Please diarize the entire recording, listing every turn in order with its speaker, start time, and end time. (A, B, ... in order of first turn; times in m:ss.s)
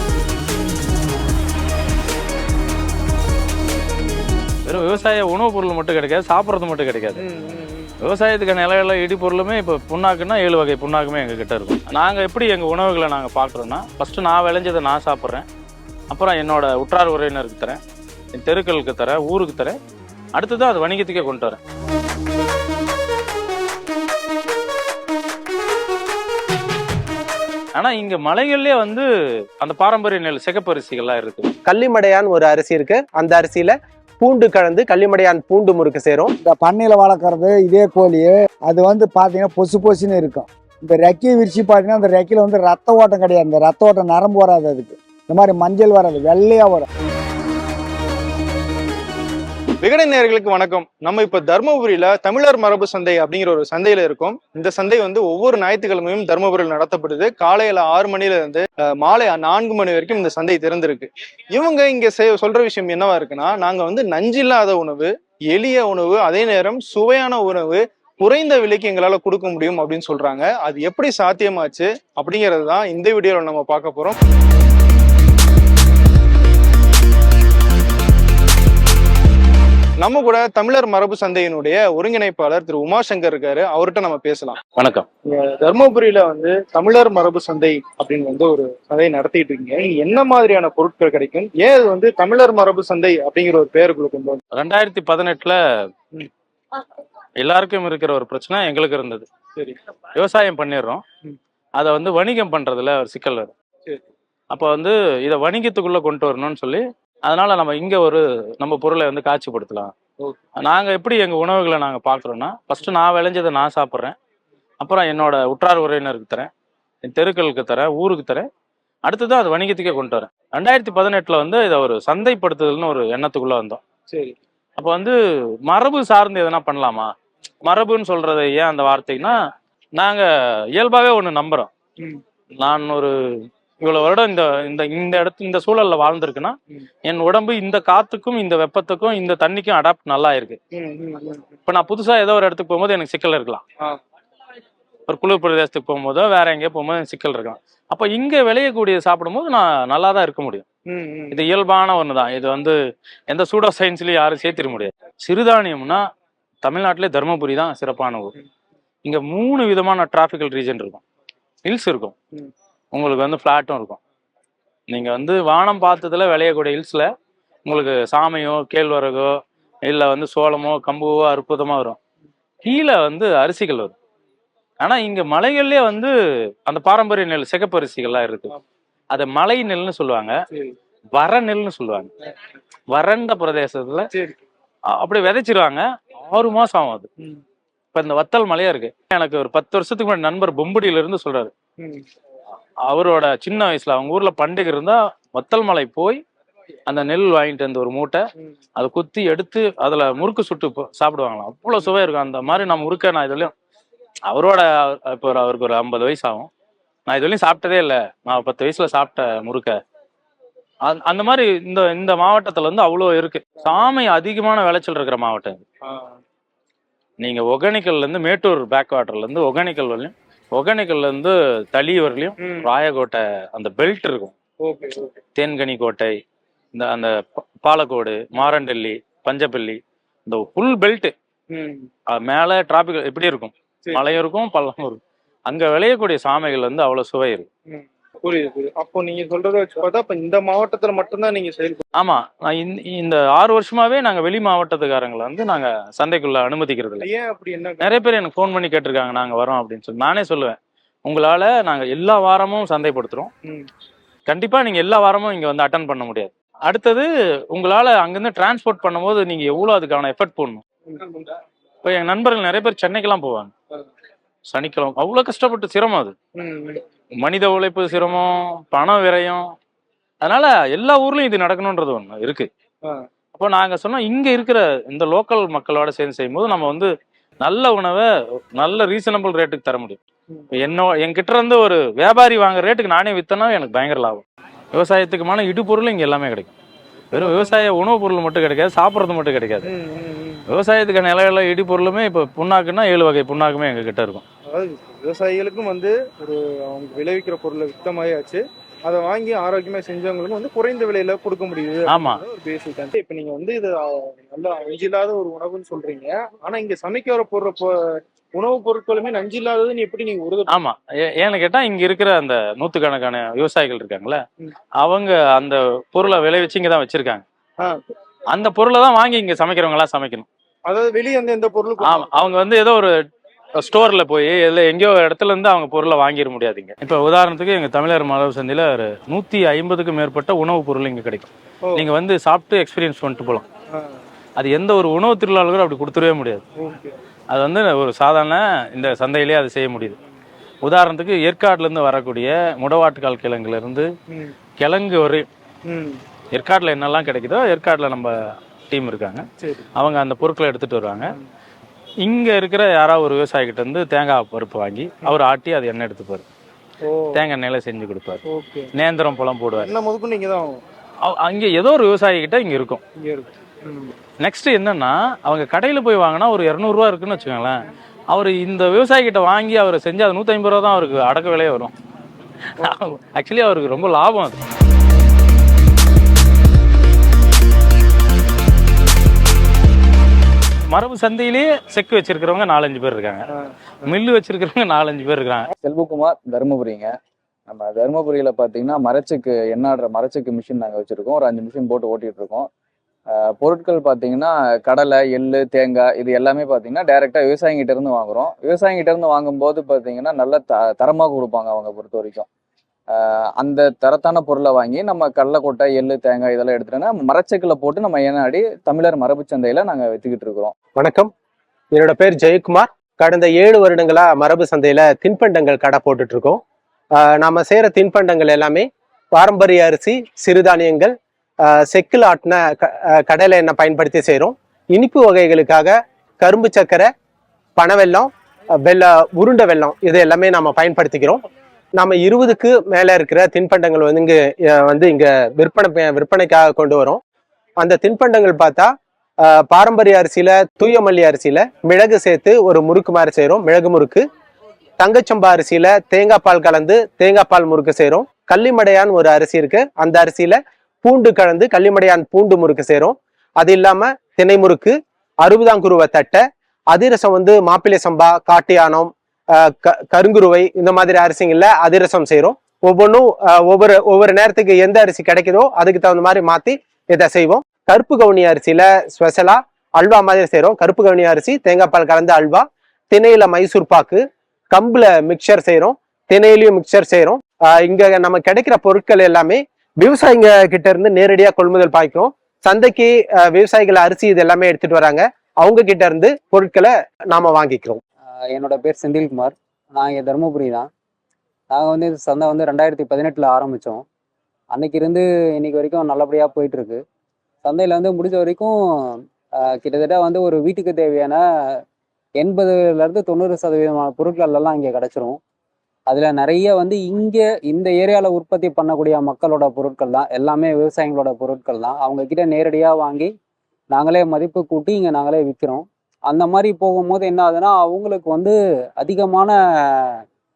0:04.7-0:07.2 A
0:07.2-0:07.9 B
0:08.0-0:15.4 A
0:16.1-0:17.8 A
0:18.4-0:19.8 A
0:20.4-0:21.6 A
0:27.8-0:29.1 A
0:29.6-0:31.5 A
0:31.7-0:36.3 C
0:36.4-0:46.9 D
0:49.8-1:14.2 B
1:20.0-1:24.6 B
1:24.7-1:25.1 A
1:25.3-1:34.4 B
1:34.5-1:35.6 A
1:37.4-1:39.3 A
1:40.2-1:41.0 A
1:41.8-1:43.5 A
1:44.5-1:49.9 A
1:50.6-1:54.2 A
1:54.8-1:56.5 A
1:57.0-1:58.5 A
1:59.0-2:03.8 A
2:04.1-2:04.4 B
2:04.8-2:05.2 A
2:05.7-2:07.1 A
2:07.6-2:09.4 A
2:10.0-2:11.7 A
2:12.6-2:13.1 A
2:13.8-2:20.6 A
2:20.7-2:21.5 B
2:21.7-2:23.6 A
2:25.1-2:30.7 A
2:30.9-2:31.5 B
2:31.3-2:32.8 A
2:33.3-2:36.0 A
2:36.6-2:38.3 A
2:39.0-2:41.0 A
2:41.6-2:42.1 A
2:42.9-2:44.0 A
2:44.9-2:47.1 A
2:47.7-2:49.3 A
2:49.9-2:52.0 A
2:52.6-2:53.9 A
2:54.8-2:56.1 A
2:56.7-2:58.5 A
2:59.1-3:00.3 A
3:01.2-3:02.1 A
3:02.9-3:04.1 A
3:04.1-3:04.4 B
3:04.9-3:07.1 A
3:07.9-3:11.5 A
3:11.8-3:12.0 B
3:12.9-3:16.2 A
3:16.9-3:18.2 A
3:18.8-3:23.5 A
3:24.3-3:26.5 A
3:27.1-3:29.8 A
3:30.9-3:35.6 A
3:35.8-3:36.1 B
3:37.2-3:44.3 A
3:42.4-3:42.7 B
3:44.6-3:45.2 B
3:45.4-3:46.2 A
3:46.8-3:51.1 A
3:51.5-3:51.9 B
3:52.1-3:57.5 A
3:53.8-3:54.1 B
3:57.7-4:01.8 B
4:02.0-4:07.1 A
4:07.0-4:08.0 B
4:07.8-4:13.3 A
4:14.3-4:20.6 A
4:20.9-4:21.2 B
4:21.8-4:23.5 A
4:24.5-4:26.2 A
4:26.4-4:26.8 B
4:27.2-4:29.4 A
4:30.2-4:32.5 A
4:33.3-4:36.9 A
4:37.4-4:40.0 A
4:40.5-4:46.5 A
4:47.1-4:47.7 B
4:47.1-4:49.7 A
4:49.6-4:50.4 B
4:50.5-4:54.2 A
4:54.5-5:10.6 B
5:01.9-5:02.2 A
5:10.5-5:14.2 A
5:14.8-5:17.2 A
5:18.3-5:20.3 A
5:20.7-5:22.3 B
5:21.8-5:22.9 A
5:23.6-5:33.4 A
5:34.4-5:36.4 A
5:36.6-5:37.0 B
5:37.3-5:40.0 A
5:40.6-5:43.9 A
5:44.6-5:45.3 A
5:45.7-5:46.0 B
5:46.3-5:48.1 A
5:48.7-5:51.1 A
5:49.4-5:49.7 B
5:52.0-5:56.2 A
5:56.8-5:57.2 B
5:57.1-5:58.2 A
5:58.2-5:58.7 B
5:58.7-5:59.7 A
5:59.6-6:00.6 B
6:01.1-6:02.8 A
6:03.0-6:03.9 B
6:04.2-6:11.7 A
6:12.6-6:14.4 A
6:20.7-6:23.3 A
6:23.8-6:25.5 A
6:25.6-6:26.9 E
6:27.5-6:32.5 E
6:33.1-6:42.3 E
6:42.9-6:50.5 E
6:50.8-6:51.1 C
6:51.8-6:56.4 C
6:57.0-7:00.9 C
7:01.5-7:06.9 C
7:07.6-7:08.1 C
7:08.6-7:11.2 C
7:11.8-7:17.0 C
7:17.6-7:18.7 C
7:19.3-7:24.1 C
7:24.8-7:36.2 C
7:36.7-7:38.9 C
7:39.4-7:54.0 C
7:54.5-8:07.8 C
8:08.2-8:10.7 F
8:11.5-8:13.8 F
8:14.5-8:16.8 F
8:17.4-8:21.6 F
8:22.2-8:25.2 F
8:25.9-8:33.1 F
8:33.7-8:40.0 F